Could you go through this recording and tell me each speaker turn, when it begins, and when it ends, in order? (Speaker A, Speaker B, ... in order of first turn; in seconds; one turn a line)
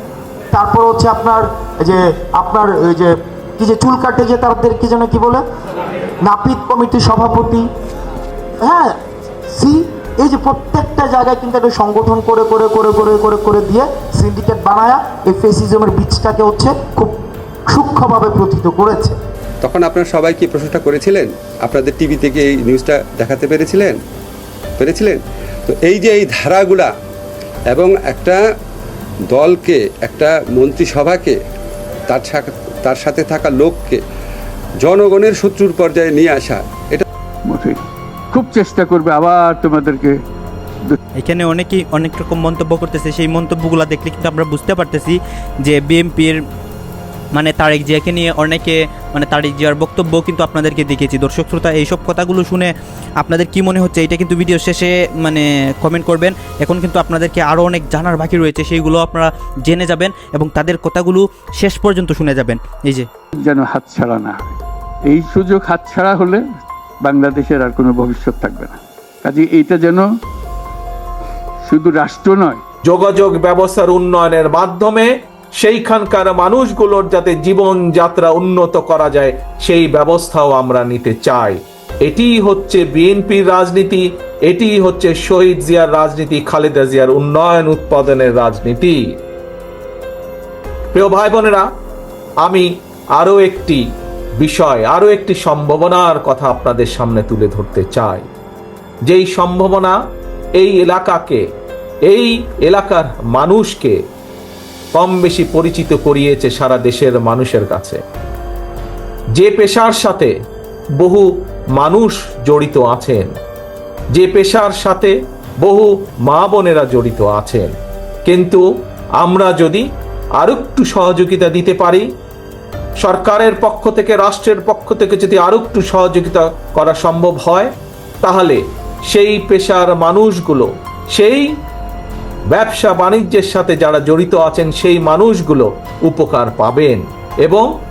Speaker A: 0.5-5.4
Speaker A: 6.2-7.7
Speaker A: 8.6-8.9
Speaker A: 9.5-17.2
Speaker A: 17.7-19.2
Speaker B: 19.6-24.0
Speaker B: 24.8-26.9
Speaker B: 27.7-28.4
Speaker B: 29.3-31.4
Speaker B: 32.1-34.0
Speaker B: 34.8-37.0
Speaker C: 37.5-37.8
Speaker C: 38.3-40.1
Speaker D: 41.2-46.4
Speaker D: 47.3-63.0
Speaker C: 63.4-66.4
Speaker C: 67.0-70.0
Speaker C: 71.6-72.6
Speaker E: 72.8-89.0
Speaker E: 90.9-91.7
Speaker E: 92.4-93.8
Speaker E: 94.4-98.3
Speaker E: 99.0-99.9
Speaker E: 100.6-101.4
Speaker E: 102.1-104.0
Speaker E: 104.9-108.0
Speaker E: 109.3-110.3
Speaker E: 111.0-113.3
Speaker E: 114.1-117.7
Speaker E: 118.2-118.6
Speaker E: 119.2-119.8
Speaker E: 120.4-122.0
Speaker E: 123.0-131.4
Speaker E: 132.5-137.7